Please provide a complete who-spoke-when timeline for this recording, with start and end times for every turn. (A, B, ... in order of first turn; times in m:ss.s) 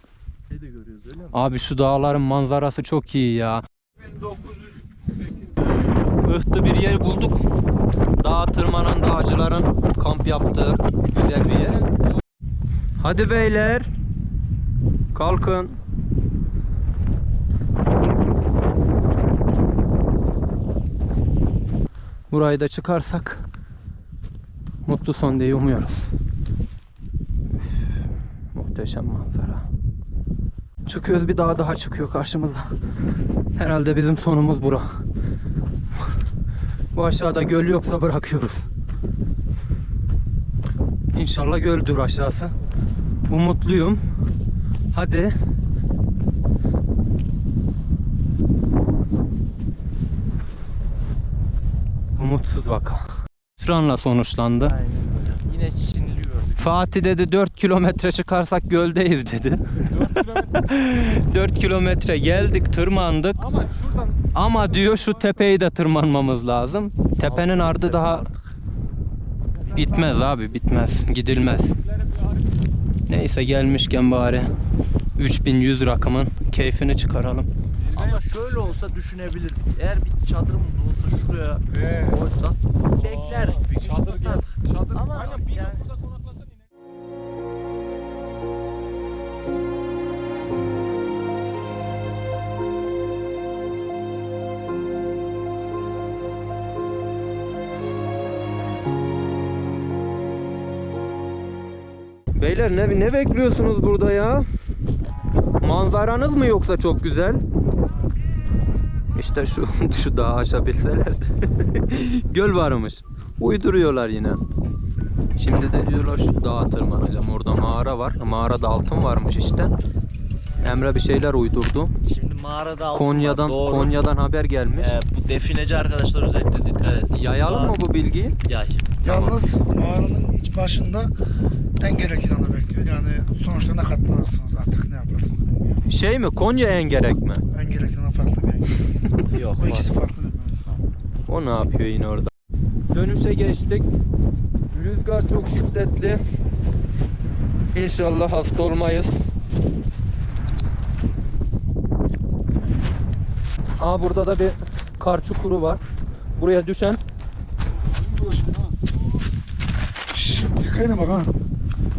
0:00.5-0:01.3 A
0:01.3-0:03.6 B
0:06.2-0:07.4 B
0:08.2-0:11.8 B
0:11.6-0:12.2 C
0:13.0-0:13.9 B
0:15.1-0:15.8 B
0:22.3-0:23.4 B
0:24.9-0:26.0 B
0:28.5-0:29.7 B
0:30.9-0:32.7 B
0:33.6-0:35.0 B
0:36.9-0:38.6 B
0:41.1-0:42.5 B
0:43.3-0:44.0 B
0:44.9-0:45.3 B
0:52.2-0:53.1 B
0:53.6-0:54.8 B
0:54.6-0:56.8 A
0:56.6-0:59.6 B
0:59.8-1:00.8 C
1:00.5-1:03.4 B
1:03.4-1:05.5 C
1:04.4-1:08.2 B
1:07.2-1:08.5 A
1:09.7-1:11.8 B
1:09.8-1:10.1 D
1:11.8-1:12.9 C
1:13.1-1:14.6 B
1:15.2-1:17.5 B
1:17.7-1:18.8 C
1:17.9-1:25.9 A
1:21.7-1:22.2 C
1:23.0-1:26.6 C
1:42.3-1:44.5 B
1:45.6-1:47.4 B
1:49.2-1:54.4 B
1:55.4-1:59.7 B
2:00.6-2:01.9 B
2:02.1-2:04.0 A
2:02.9-2:05.0 B
2:04.8-2:07.8 A
2:07.1-2:08.4 B
2:08.4-2:09.4 A
2:09.0-2:11.1 D
2:11.8-2:15.8 D
2:15.9-2:17.4 B
2:17.5-2:18.8 D
2:19.3-2:19.9 A
2:19.6-2:20.8 D
2:21.3-2:22.3 B
2:22.9-2:23.9 B
2:24.7-2:26.2 B
2:27.7-2:29.1 B
2:33.8-2:35.8 B
2:36.4-2:37.0 B
2:37.7-2:38.8 D
2:40.1-2:41.3 D